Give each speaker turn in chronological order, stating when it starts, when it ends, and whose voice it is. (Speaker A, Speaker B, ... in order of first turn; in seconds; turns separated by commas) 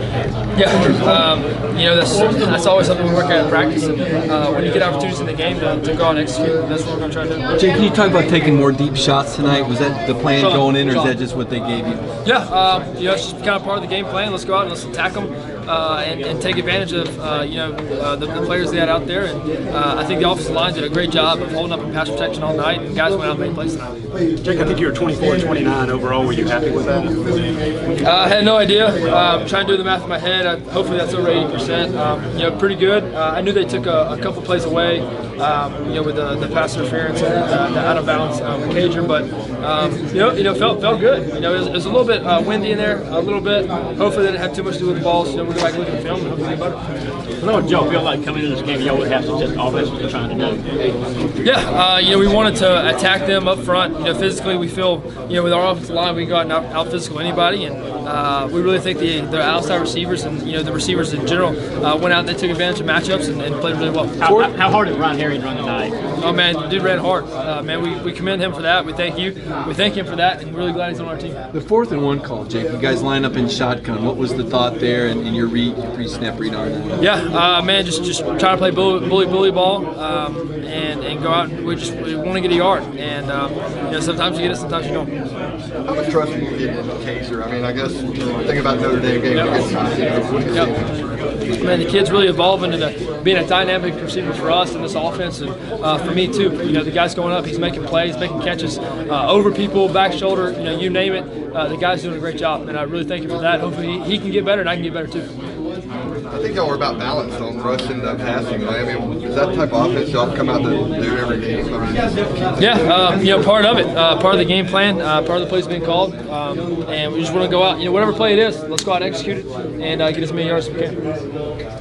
Speaker A: 0.5-7.4, Speaker B: 7.6-12.0, Speaker A: 10.3-11.2, Speaker A: 12.2-23.9, Speaker C: 24.4-27.2, Speaker A: 28.0-46.8, Speaker D: 47.4-51.1, Speaker A: 51.4-64.4, Speaker D: 64.2-66.0, Speaker B: 64.2-64.5, Speaker A: 66.2-71.4, Speaker B: 71.5-77.0, Speaker A: 77.0-85.1, Speaker E: 85.9-91.1, Speaker A: 91.6-105.3, Speaker E: 106.3-112.7, Speaker A: 112.6-121.0